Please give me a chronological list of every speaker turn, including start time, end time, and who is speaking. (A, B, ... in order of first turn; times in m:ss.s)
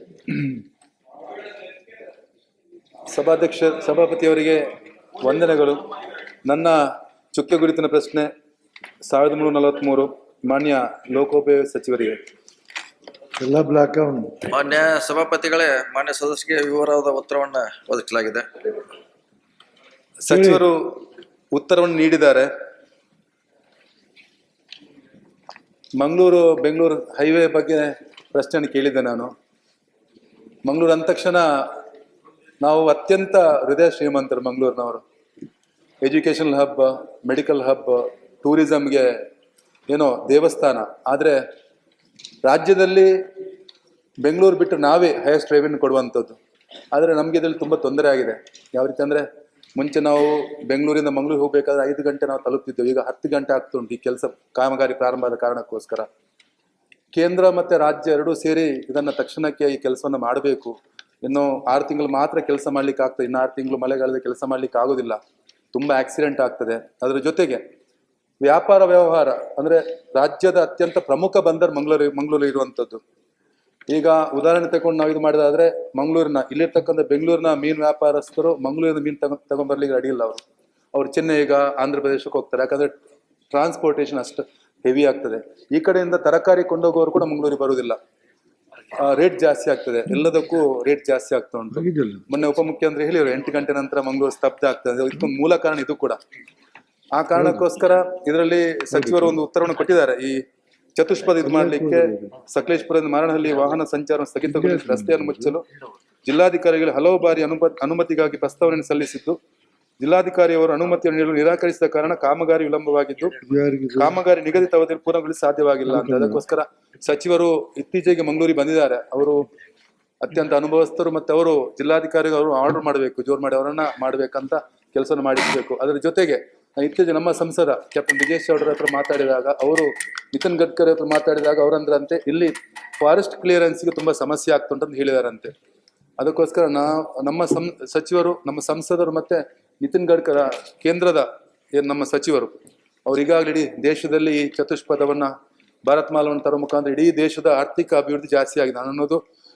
0:03.1-0:04.6 A
0:05.2-0:05.8 A
0:06.4-0:06.8 A
0:07.3-0:08.3 A
0:09.1-0:12.2 A
0:13.4-0:14.4 B
0:14.5-0:18.4 C
0:20.2-0:20.8 A
0:20.3-0:20.6 B
0:21.5-0:22.5 A
0:26.0-0:29.3 A
0:30.6-0:31.4 A
0:32.6-0:35.0 A
0:36.0-0:39.1 A
0:39.9-0:41.4 A
0:42.4-0:43.1 A
0:44.2-0:46.4 A
0:46.9-0:56.1 A
0:57.1-1:05.2 A
1:05.7-1:07.6 A
1:08.4-1:13.0 A
1:13.9-1:20.4 A
1:20.9-1:22.9 A
1:23.5-1:28.0 A
1:29.0-1:36.2 A
1:31.7-1:32.2 B
1:37.1-1:40.4 A
1:37.4-1:37.6 B
1:38.9-1:39.3 B
1:41.0-1:45.6 A
1:41.4-1:42.3 B
1:44.4-1:45.6 B
1:46.2-1:49.4 A
1:50.0-1:53.4 A
1:53.4-1:54.2 B
1:54.0-1:59.4 A
1:55.9-1:56.4 B
2:00.2-2:15.5 A
2:16.2-2:22.5 A
2:23.0-2:25.3 A
2:25.8-2:29.2 A